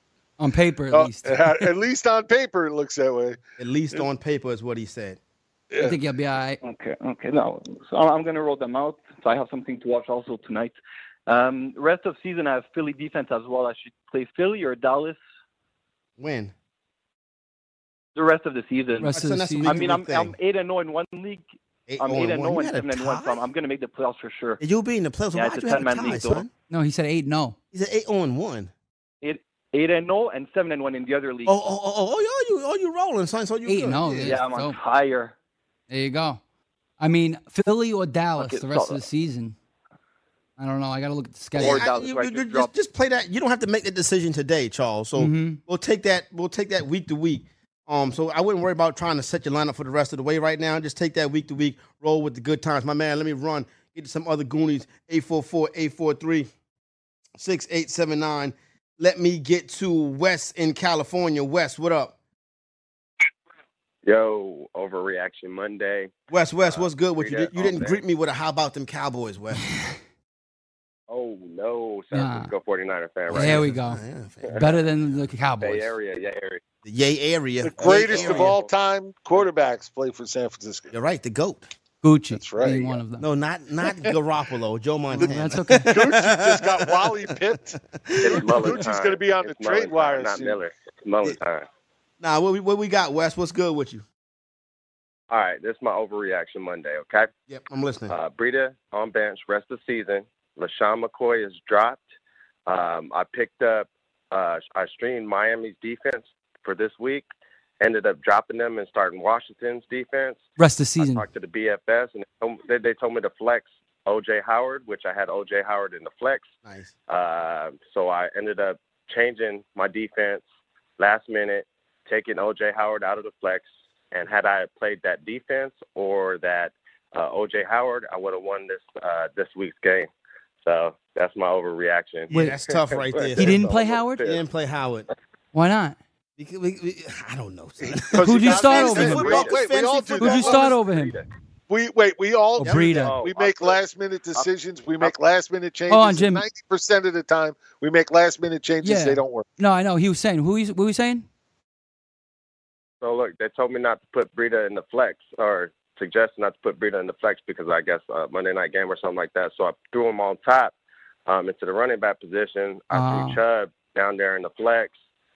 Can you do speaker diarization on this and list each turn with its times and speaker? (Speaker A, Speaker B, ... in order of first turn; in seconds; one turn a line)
Speaker A: 0.4-1.4
Speaker B: 0.9-3.4
Speaker C: 3.6-5.2
Speaker A: 5.8-6.6
Speaker D: 6.6-15.2
Speaker C: 16.2-16.5
Speaker D: 18.1-21.4
Speaker A: 19.0-19.9
Speaker C: 19.1-20.3
Speaker C: 21.9-23.4
Speaker D: 22.0-24.6
Speaker C: 24.6-26.5
Speaker D: 25.3-26.4
Speaker A: 26.7-27.6
Speaker C: 27.7-28.7
Speaker D: 29.2-31.6
Speaker C: 31.4-34.4
Speaker A: 33.6-34.8
Speaker D: 34.1-35.3
Speaker A: 35.9-36.4
Speaker A: 37.0-39.5
Speaker D: 38.4-39.0
Speaker A: 40.6-41.9
Speaker D: 41.5-42.7
Speaker C: 41.6-56.5
Speaker A: 45.2-45.6
Speaker C: 57.4-62.1
Speaker E: 64.0-66.1
Speaker C: 66.3-69.6
Speaker E: 66.7-68.0
Speaker E: 71.1-73.7
Speaker A: 72.1-72.5
Speaker A: 73.3-74.0
Speaker C: 73.3-74.8
Speaker E: 74.4-74.7
Speaker A: 74.5-75.9
Speaker E: 75.6-76.6
Speaker C: 76.8-78.5
Speaker B: 77.6-80.9
Speaker E: 77.9-78.7
Speaker C: 80.9-81.7
Speaker A: 82.0-83.2
Speaker B: 82.3-82.9
Speaker C: 83.2-87.2
Speaker A: 85.1-85.9
Speaker B: 85.2-90.6
Speaker C: 87.9-88.8
Speaker E: 88.2-91.7
Speaker C: 92.2-94.0
Speaker E: 95.3-97.3
Speaker C: 97.5-98.1
Speaker E: 98.1-102.0
Speaker E: 102.7-107.3
Speaker E: 107.8-110.4
Speaker A: 110.6-111.2
Speaker E: 111.0-116.5
Speaker C: 116.6-116.9
Speaker E: 117.1-120.4
Speaker E: 121.0-130.1
Speaker E: 130.7-134.4
Speaker A: 132.3-132.6
Speaker C: 132.3-133.7
Speaker A: 133.3-134.2
Speaker C: 134.2-135.1
Speaker A: 135.5-136.0
Speaker C: 136.4-140.7
Speaker B: 137.8-140.7
Speaker A: 138.2-139.4
Speaker E: 139.1-139.6
Speaker A: 140.2-141.1
Speaker E: 140.5-141.2
Speaker B: 141.7-149.4
Speaker A: 142.6-143.1
Speaker E: 143.0-143.8
Speaker A: 145.9-146.4
Speaker A: 148.8-151.2
Speaker E: 153.0-160.7
Speaker E: 161.3-164.9
Speaker A: 162.9-163.4